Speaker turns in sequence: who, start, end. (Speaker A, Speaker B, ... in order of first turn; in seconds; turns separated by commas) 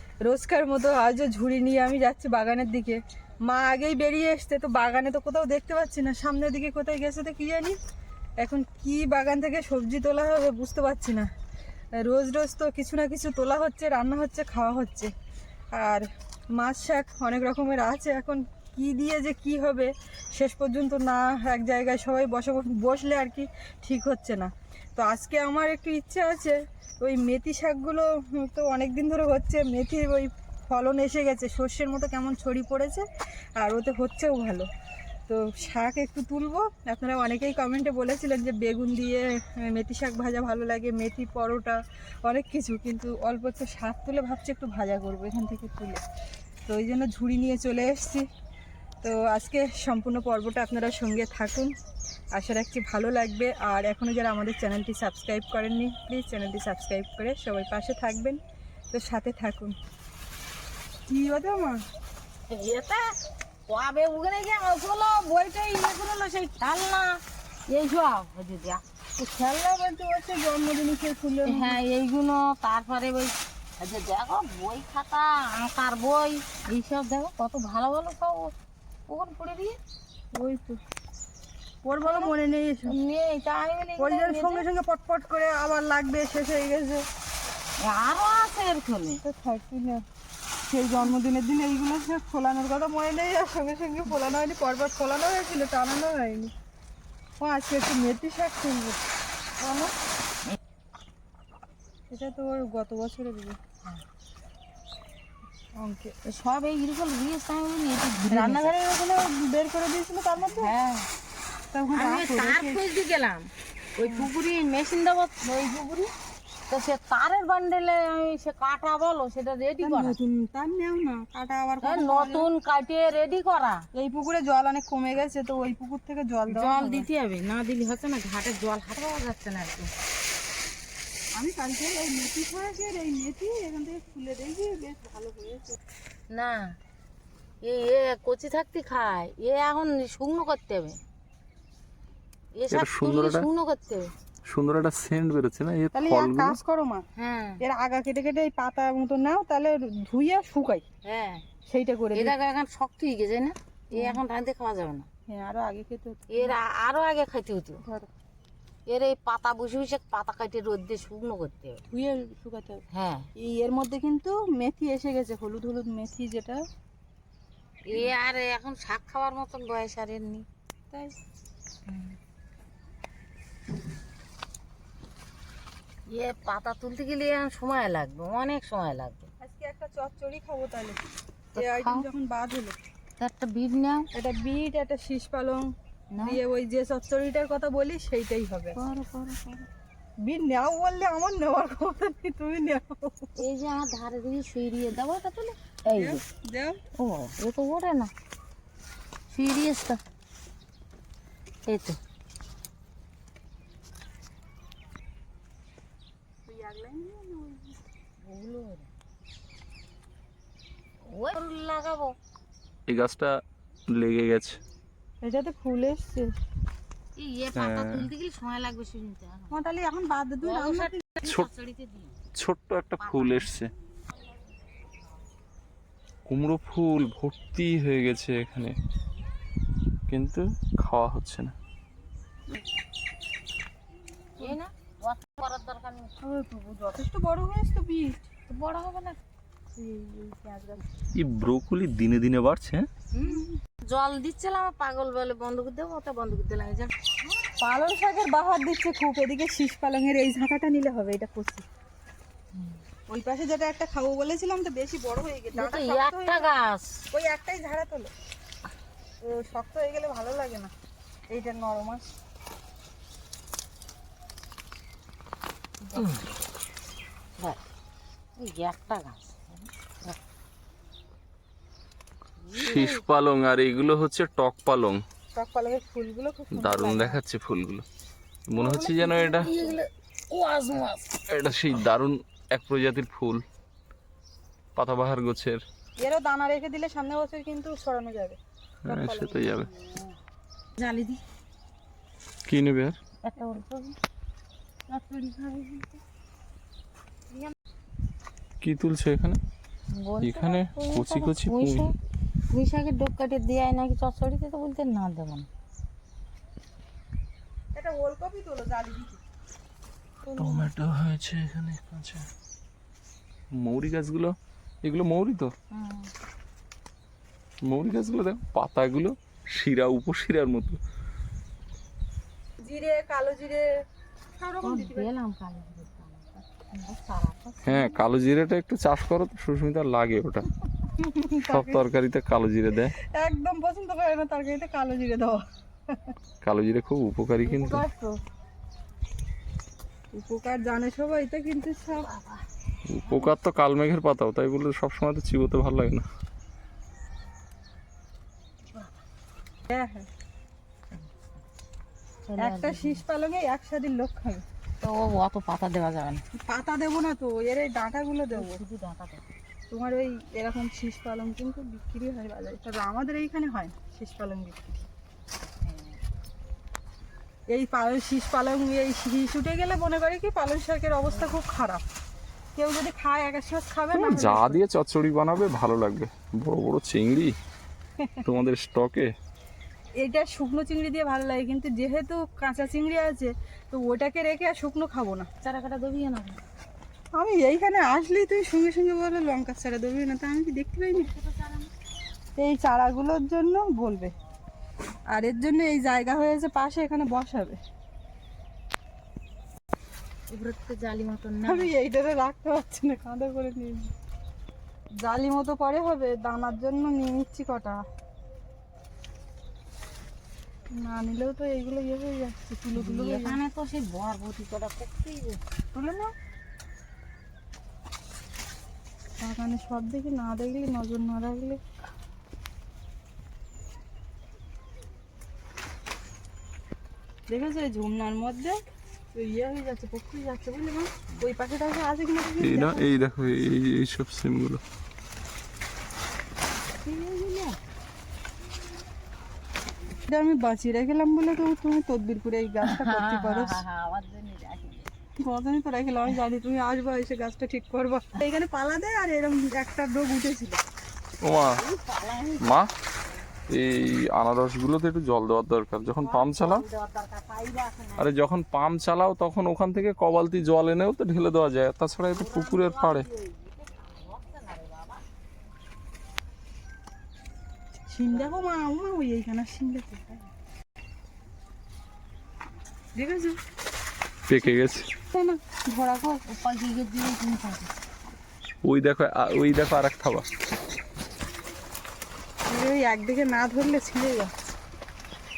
Speaker A: 0.2-7.8, Speaker A: 8.4-11.3, Speaker A: 12.0-15.1, Speaker A: 15.7-33.0, Speaker A: 33.6-34.7, Speaker A: 35.3-46.0, Speaker A: 46.7-48.3, Speaker A: 49.0-51.7, Speaker A: 52.3-58.4, Speaker A: 58.9-59.8, Speaker A: 61.1-61.8, Speaker B: 62.5-63.1, Speaker B: 63.7-68.8, Speaker A: 69.2-71.8, Speaker B: 71.5-78.5, Speaker B: 79.1-79.8, Speaker A: 80.3-80.8, Speaker A: 81.8-82.9, Speaker B: 82.0-82.3, Speaker B: 82.9-84.7, Speaker A: 84.0-87.0, Speaker B: 87.8-89.2, Speaker A: 89.2-90.0, Speaker A: 90.7-96.5, Speaker A: 97.4-99.0, Speaker A: 99.6-99.9, Speaker A: 102.1-103.6, Speaker A: 105.8-106.2, Speaker B: 106.2-108.7, Speaker A: 108.3-110.7, Speaker B: 110.5-111.1, Speaker A: 111.7-112.8, Speaker B: 112.0-116.1, Speaker B: 116.7-120.2, Speaker A: 119.8-122.5, Speaker B: 121.8-123.8, Speaker A: 123.9-127.1, Speaker B: 126.5-129.9, Speaker A: 131.4-135.8, Speaker B: 136.3-136.8, Speaker B: 137.6-141.0, Speaker B: 142.5-144.1, Speaker C: 142.7-143.5, Speaker C: 144.5-146.6, Speaker A: 145.9-147.1, Speaker B: 147.2-147.6, Speaker A: 147.6-150.8, Speaker B: 151.0-151.5, Speaker A: 151.7-152.3, Speaker B: 152.1-155.1, Speaker A: 153.9-154.2, Speaker A: 155.3-156.5, Speaker B: 156.3-157.8, Speaker A: 157.8-158.1, Speaker B: 158.9-161.9, Speaker A: 161.9-162.8, Speaker B: 162.9-163.3, Speaker A: 163.4-166.6, Speaker B: 167.9-170.4, Speaker B: 171.9-172.2, Speaker B: 176.1-179.3, Speaker A: 179.4-181.0, Speaker B: 181.6-182.1, Speaker A: 181.6-182.8, Speaker B: 183.2-184.1, Speaker A: 184.1-185.7, Speaker B: 186.1-186.4, Speaker A: 186.2-188.8, Speaker B: 188.8-189.7, Speaker A: 190.2-193.3, Speaker B: 193.4-196.2, Speaker A: 195.9-196.8, Speaker B: 197.0-198.1, Speaker B: 199.3-200.0, Speaker B: 201.7-202.0, Speaker A: 206.5-207.8, Speaker B: 208.2-208.9, Speaker B: 211.1-212.2, Speaker C: 212.9-213.4, Speaker C: 213.9-214.6, Speaker A: 215.2-216.3, Speaker B: 217.2-219.6, Speaker C: 217.6-218.1, Speaker A: 219.5-221.1, Speaker B: 220.4-222.2, Speaker C: 222.4-223.7, Speaker B: 223.0-223.5, Speaker C: 226.3-228.8, Speaker C: 230.1-231.5, Speaker B: 234.4-236.1, Speaker A: 236.2-238.2, Speaker B: 238.5-239.2, Speaker A: 239.8-240.8, Speaker C: 241.2-242.9, Speaker B: 243.1-246.9, Speaker A: 243.3-243.6, Speaker A: 247.6-251.7, Speaker A: 253.1-256.5, Speaker B: 255.5-257.0, Speaker A: 257.1-258.1, Speaker A: 259.2-260.7, Speaker A: 261.3-262.1, Speaker B: 267.4-267.6, Speaker B: 268.4-270.2, Speaker B: 272.4-273.0, Speaker C: 272.5-275.0, Speaker A: 275.3-277.2, Speaker C: 276.5-277.9, Speaker C: 278.5-279.5, Speaker A: 278.6-279.7, Speaker B: 279.1-281.2, Speaker C: 281.3-283.4, Speaker C: 284.8-285.6, Speaker A: 286.0-289.7, Speaker C: 288.9-289.7, Speaker B: 290.8-291.2, Speaker C: 292.5-293.0, Speaker B: 293.2-294.0, Speaker B: 294.9-296.0, Speaker C: 298.6-299.4, Speaker B: 299.9-301.9, Speaker C: 300.2-301.9, Speaker B: 302.5-305.5, Speaker A: 307.8-309.2, Speaker C: 310.4-312.3, Speaker C: 313.6-315.5, Speaker B: 315.7-316.1, Speaker C: 317.7-320.8, Speaker A: 322.6-323.7, Speaker A: 324.4-325.1, Speaker B: 324.6-328.0, Speaker C: 327.6-330.5, Speaker A: 331.0-331.8, Speaker C: 331.5-332.9, Speaker A: 333.1-336.1, Speaker C: 336.4-337.8, Speaker A: 337.4-338.2, Speaker A: 340.1-342.1, Speaker B: 342.0-342.4, Speaker C: 342.9-346.1, Speaker B: 343.0-343.3, Speaker A: 349.7-350.1, Speaker B: 352.2-353.0, Speaker A: 352.4-354.4, Speaker B: 354.8-356.2, Speaker A: 356.4-358.6, Speaker B: 358.3-359.2, Speaker A: 359.7-364.9, Speaker B: 365.6-366.0, Speaker A: 367.5-371.8, Speaker A: 372.6-374.6, Speaker C: 373.9-377.4, Speaker C: 378.2-379.1, Speaker A: 380.0-385.3, Speaker B: 385.4-386.4, Speaker A: 387.1-391.1, Speaker B: 390.9-391.7, Speaker A: 392.4-394.1, Speaker A: 395.1-397.6, Speaker B: 400.3-401.7, Speaker A: 401.4-403.9, Speaker A: 405.0-407.8, Speaker A: 410.7-413.4, Speaker B: 412.8-415.4, Speaker A: 415.7-416.1, Speaker A: 419.2-421.6, Speaker A: 427.3-428.6, Speaker A: 429.1-432.8, Speaker C: 432.4-434.6, Speaker B: 436.9-437.5, Speaker A: 436.9-437.3, Speaker A: 440.1-443.6, Speaker B: 442.6-444.9, Speaker A: 445.2-450.6, Speaker C: 451.2-451.6, Speaker B: 451.4-452.5, Speaker C: 452.4-452.7, Speaker C: 453.5-456.6, Speaker B: 456.0-458.1, Speaker C: 458.0-463.1, Speaker B: 462.1-465.0, Speaker A: 467.9-470.3, Speaker B: 468.1-468.5, Speaker A: 473.0-473.4, Speaker C: 474.3-474.9, Speaker A: 475.1-476.2, Speaker B: 476.3-477.7, Speaker C: 478.6-480.3, Speaker A: 482.5-484.3